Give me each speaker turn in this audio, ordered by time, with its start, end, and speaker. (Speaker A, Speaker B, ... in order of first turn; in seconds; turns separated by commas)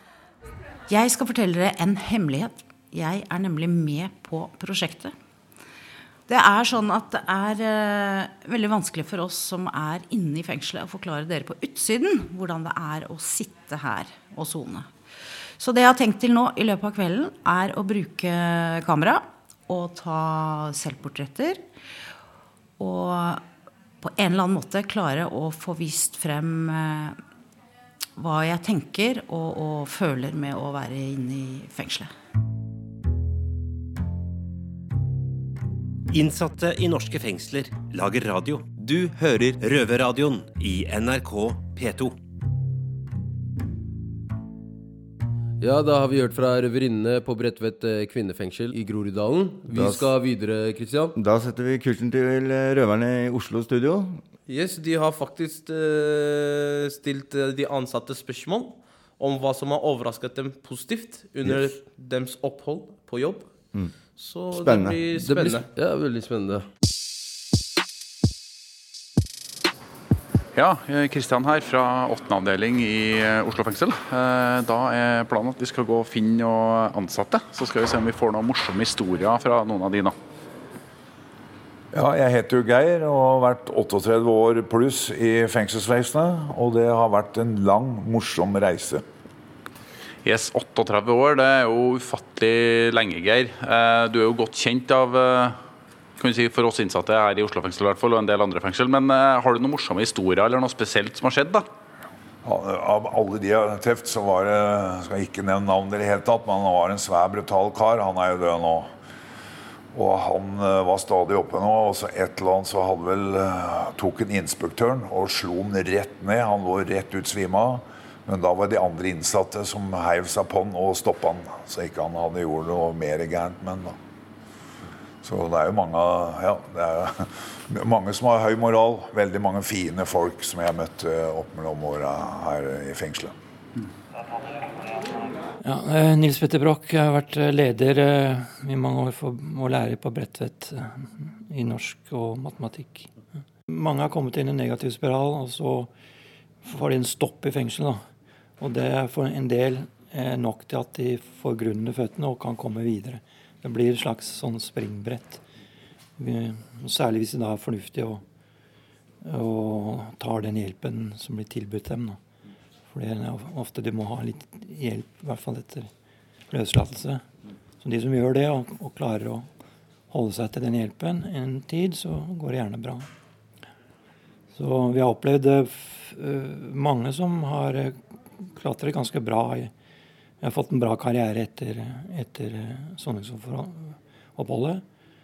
Speaker A: 0.9-5.2, Speaker A: 6.3-14.9, Speaker A: 15.6-21.6, Speaker A: 22.8-23.4, Speaker A: 24.0-27.2, Speaker A: 28.2-32.1, Speaker B: 36.1-42.2, Speaker C: 45.6-51.1, Speaker D: 49.7-50.1, Speaker D: 51.2-54.2, Speaker E: 54.5-63.5, Speaker D: 63.7-64.0, Speaker E: 64.1-65.7, Speaker D: 64.5-65.6, Speaker C: 65.2-66.7, Speaker F: 70.5-80.1, Speaker G: 81.9-89.0, Speaker F: 90.2-95.6, Speaker F: 96.2-101.7, Speaker G: 102.4-108.9, Speaker G: 109.9-124.0, Speaker G: 125.2-133.3, Speaker H: 135.6-143.2, Speaker H: 143.7-145.9, Speaker H: 146.6-148.1, Speaker H: 148.6-155.4, Speaker H: 156.2-158.2, Speaker H: 159.2-162.2, Speaker H: 162.9-165.9, Speaker H: 166.5-167.2, Speaker H: 167.8-169.5, Speaker H: 170.1-173.1, Speaker H: 174.5-179.7, Speaker H: 180.4-184.8